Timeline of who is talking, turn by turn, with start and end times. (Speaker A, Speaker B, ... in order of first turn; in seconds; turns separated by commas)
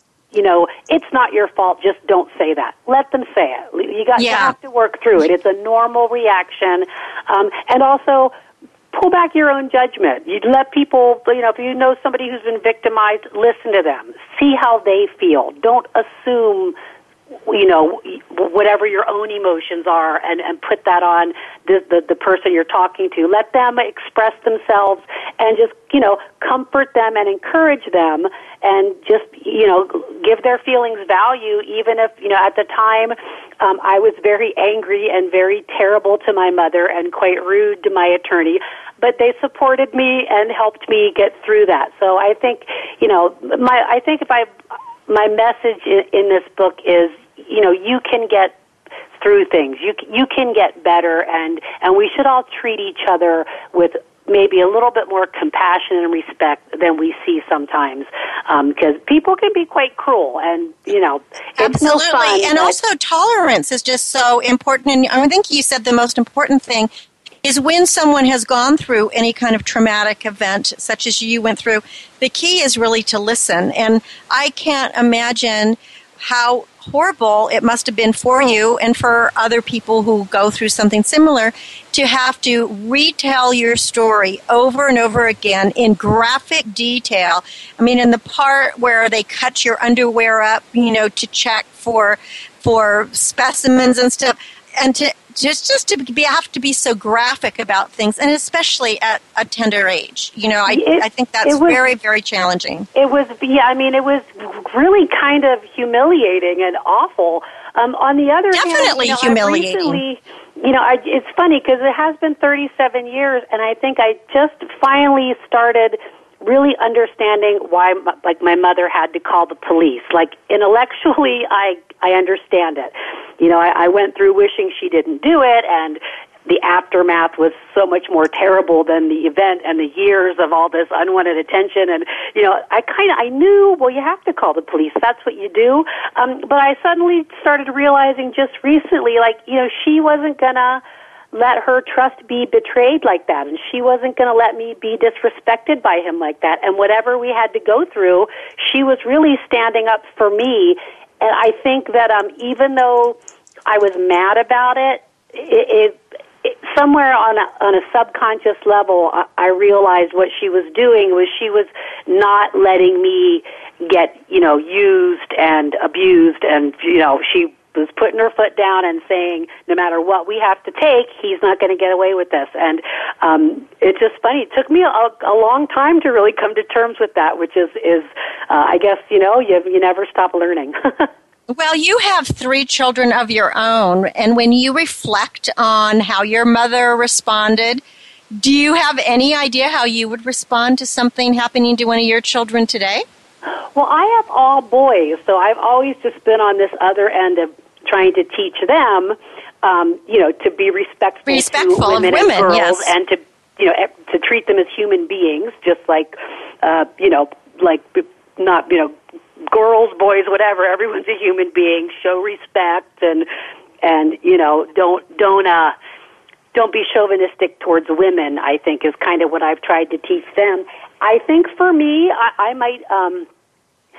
Speaker A: 0.3-8.3, Speaker B: 4.2-4.5, Speaker A: 8.9-16.8, Speaker A: 17.5-44.5, Speaker A: 45.1-48.5, Speaker A: 49.2-62.8, Speaker B: 61.6-66.9, Speaker B: 67.4-102.9, Speaker A: 100.7-101.8, Speaker A: 103.0-140.8, Speaker B: 108.5-110.0, Speaker A: 141.3-181.1, Speaker B: 181.5-187.8, Speaker B: 188.3-193.0, Speaker A: 193.7-208.9, Speaker B: 201.3-202.9, Speaker A: 209.5-213.3, Speaker A: 213.8-215.7, Speaker A: 216.5-223.3